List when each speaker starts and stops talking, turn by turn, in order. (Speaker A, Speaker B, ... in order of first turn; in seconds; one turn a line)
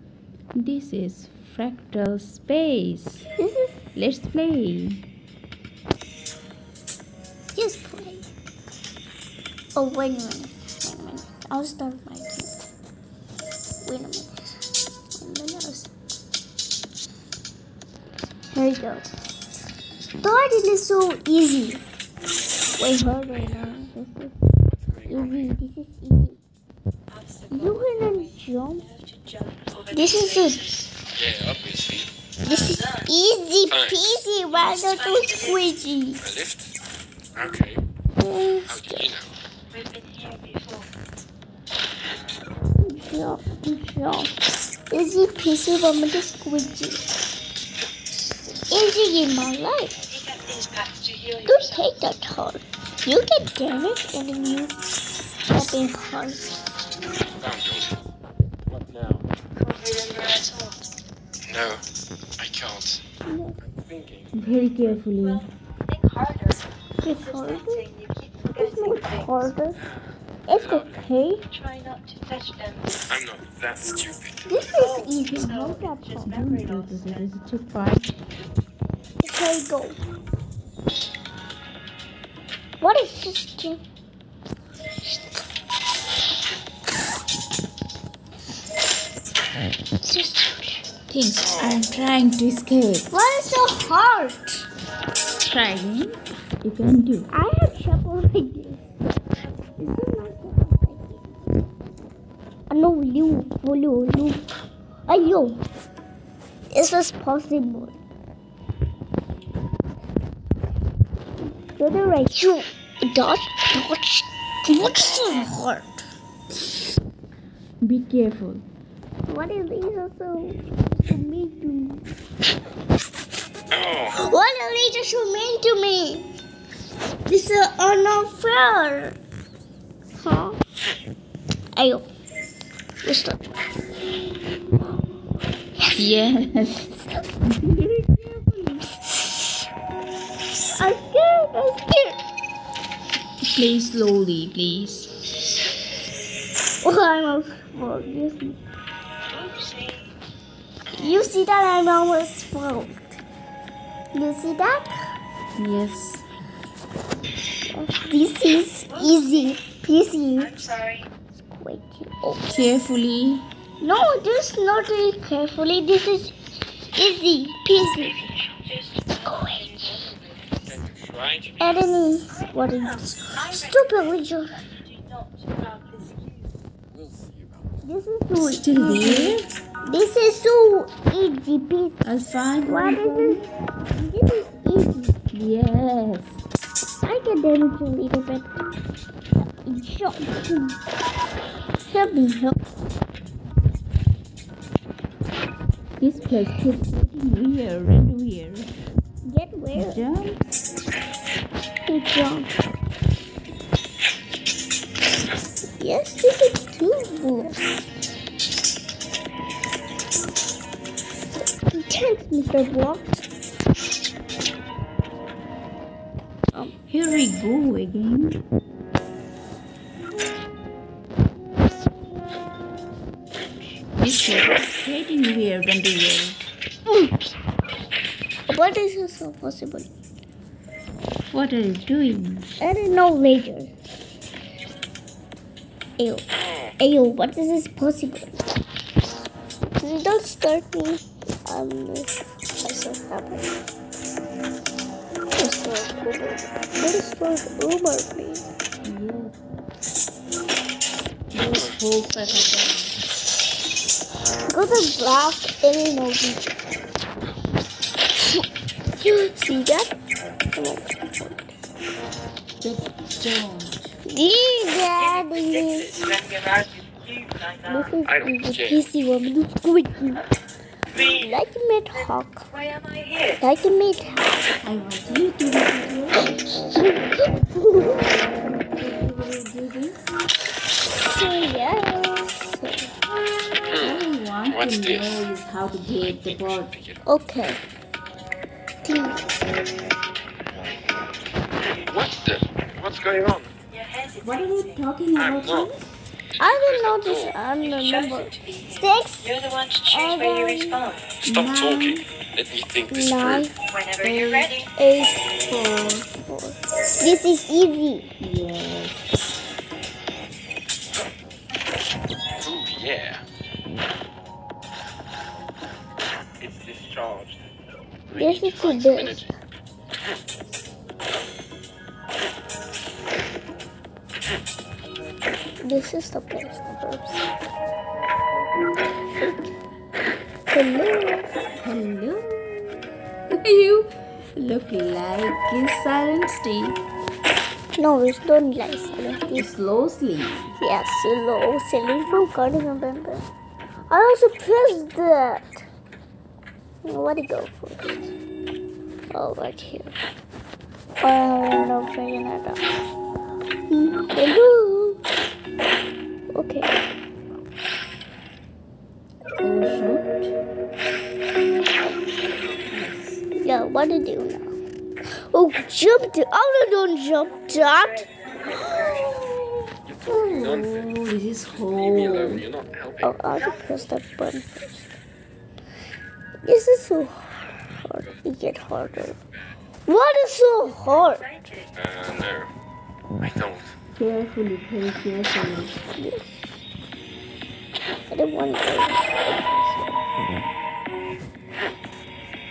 Speaker A: 0.5-3.3
Speaker B: 3.4-3.8
Speaker A: 3.9-5.0
Speaker B: 7.5-8.3
Speaker B: 9.7-12.5
Speaker B: 13.8-14.6
Speaker B: 15.1-15.9
Speaker B: 18.5-19.1
Speaker B: 20.2-21.8
Speaker B: 22.8-24.3
Speaker C: 23.3-23.6
Speaker C: 24.7-25.5
Speaker B: 25.1-26.4
Speaker B: 27.5-28.9
Speaker D: 29.1-30.9
Speaker B: 29.9-30.6
Speaker C: 31.1-32.1
Speaker B: 32.4-36.2
Speaker C: 33.7-34.0
Speaker C: 36.2-36.8
Speaker C: 37.3-37.8
Speaker B: 38.2-39.1
Speaker C: 38.6-39.3
Speaker D: 39.7-40.9
Speaker B: 42.7-44.3
Speaker B: 44.9-47.0
Speaker B: 48.7-50.0
Speaker D: 50.1-51.7
Speaker B: 51.5-54.8
Speaker B: 55.5-56.5
Speaker C: 57.2-58.1
Speaker C: 58.7-59.3
Speaker D: 59.6-60.8
Speaker C: 61.4-61.8
Speaker C: 62.4-63.0
Speaker B: 63.2-63.5
Speaker C: 63.6-64.3
Speaker A: 64.3-65.5
Speaker D: 65.2-66.6
Speaker B: 67.0-67.9
Speaker D: 67.3-69.5
Speaker B: 68.5-69.8
Speaker C: 69.8-71.1
Speaker B: 70.5-70.9
Speaker A: 70.9-71.4
Speaker D: 71.5-73.0
Speaker C: 73.1-74.6
Speaker B: 74.5-76.3
Speaker D: 74.7-77.2
Speaker A: 75.3-78.1
Speaker B: 79.2-80.0
Speaker B: 82.8-83.8
Speaker B: 90.0-90.8
Speaker A: 91.1-93.1
Speaker C: 91.4-91.8
Speaker B: 93.1-94.7
Speaker A: 95.4-97.3
Speaker B: 97.3-98.8
Speaker B: 99.7-101.4
Speaker B: 102.7-104.5
Speaker B: 105.1-105.6
Speaker B: 106.7-107.9
Speaker B: 111.8-116.0
Speaker A: 117.8-118.6
Speaker B: 119.2-122.1
Speaker C: 123.7-124.1
Speaker B: 124.0-126.3
Speaker B: 127.2-129.2
Speaker B: 130.2-130.6
Speaker B: 131.7-132.1
Speaker B: 133.0-133.5
Speaker B: 135.8-136.1
Speaker A: 135.9-138.8
Speaker B: 140.7-142.2
Speaker A: 143.4-145.1
Speaker B: 146.8-148.6
Speaker D: 149.3-150.0
Speaker C: 150.9-151.3
Speaker B: 150.9-153.2
Speaker B: 154.1-155.0
Speaker A: 155.6-156.2
Speaker B: 157.7-160.6
Speaker D: 160.5-161.0
Speaker B: 161.5-162.6
Speaker A: 162.4-163.5
Speaker B: 163.8-166.3
Speaker B: 166.9-168.5
Speaker D: 168.9-170.1
Speaker B: 169.2-169.8
Speaker C: 170.6-171.7
Speaker B: 171.6-174.5
Speaker D: 174.9-176.3
Speaker C: 176.9-177.5
Speaker B: 177.8-182.0
Speaker A: 178.3-179.5
Speaker A: 182.0-183.5
Speaker B: 182.6-183.4
Speaker B: 183.9-185.2
Speaker A: 185.3-186.4
Speaker B: 187.0-188.7
Speaker B: 189.6-190.8
Speaker B: 191.8-192.6
Speaker A: 196.0-198.7
Speaker B: 199.2-200.0
Speaker A: 199.7-200.4
Speaker B: 201.8-202.5
Speaker B: 205.8-207.8
Speaker B: 211.4-213.2
Speaker A: 216.9-218.4
Speaker A: 224.0-226.4
Speaker B: 228.5-229.9
Speaker A: 231.3-232.5
Speaker B: 232.6-233.7
Speaker B: 236.0-238.4
Speaker C: 236.4-236.7
Speaker B: 239.8-243.5
Speaker B: 245.3-248.5
Speaker A: 248.8-249.3
Speaker A: 251.3-252.9
Speaker B: 254.5-256.6
Speaker B: 259.0-259.9
Speaker B: 260.5-261.5
Speaker A: 262.6-264.0
Speaker B: 264.0-265.9
Speaker D: 265.2-267.8
Speaker B: 267.6-270.2
Speaker C: 268.0-268.8
Speaker B: 271.1-272.5
Speaker D: 272.5-273.3
Speaker B: 273.4-274.5
Speaker A: 274.6-276.3
Speaker B: 276.7-278.1
Speaker A: 278.5-280.1
Speaker B: 281.0-282.9
Speaker C: 283.7-285.3
Speaker A: 283.8-286.8
Speaker C: 286.1-287.0
Speaker B: 287.1-287.6
Speaker B: 288.8-289.3
Speaker C: 291.6-293.5
Speaker D: 293.7-294.7
Speaker A: 294.2-295.8
Speaker C: 295.2-295.7
Speaker C: 296.3-297.4
Speaker B: 296.4-299.3
Speaker D: 297.8-298.7
Speaker D: 299.2-301.0
Speaker B: 299.9-300.8
Speaker C: 301.2-303.5
Speaker A: 301.2-302.1
Speaker B: 302.9-303.6
Speaker D: 303.7-304.6
Speaker A: 304.0-304.5
Speaker B: 304.7-305.3
Speaker A: 305.5-306.1
Speaker B: 306.2-308.1
Speaker A: 308.2-309.2
Speaker C: 312.4-313.2
Speaker C: 316.4-317.5
Speaker C: 318.1-319.2
Speaker B: 318.2-319.3
Speaker B: 325.6-327.2
Speaker B: 329.1-329.6
Speaker B: 330.5-331.4
Speaker A: 331.6-332.8
Speaker A: 333.3-336.8
Speaker B: 337.8-339.5
Speaker A: 339.3-340.6
Speaker B: 340.6-343.3
Speaker B: 343.9-345.7
Speaker B: 346.8-348.1
Speaker B: 349.1-349.9
Speaker B: 351.0-352.8
Speaker B: 353.7-355.0
Speaker B: 356.3-356.8
Speaker A: 359.4-360.3
Speaker A: 362.6-363.2
Speaker B: 363.4-364.5
Speaker B: 365.3-368.1
Speaker D: 368.4-369.0
Speaker A: 368.5-369.5
Speaker C: 369.8-370.9
Speaker A: 370.1-372.4
Speaker C: 371.5-373.2
Speaker B: 373.0-374.9
Speaker B: 376.4-379.2
Speaker B: 379.9-381.3
Speaker D: 381.2-381.7
Speaker C: 381.7-382.5
Speaker C: 383.2-383.7
Speaker A: 383.9-385.8
Speaker B: 385.9-386.5
Speaker B: 388.1-389.6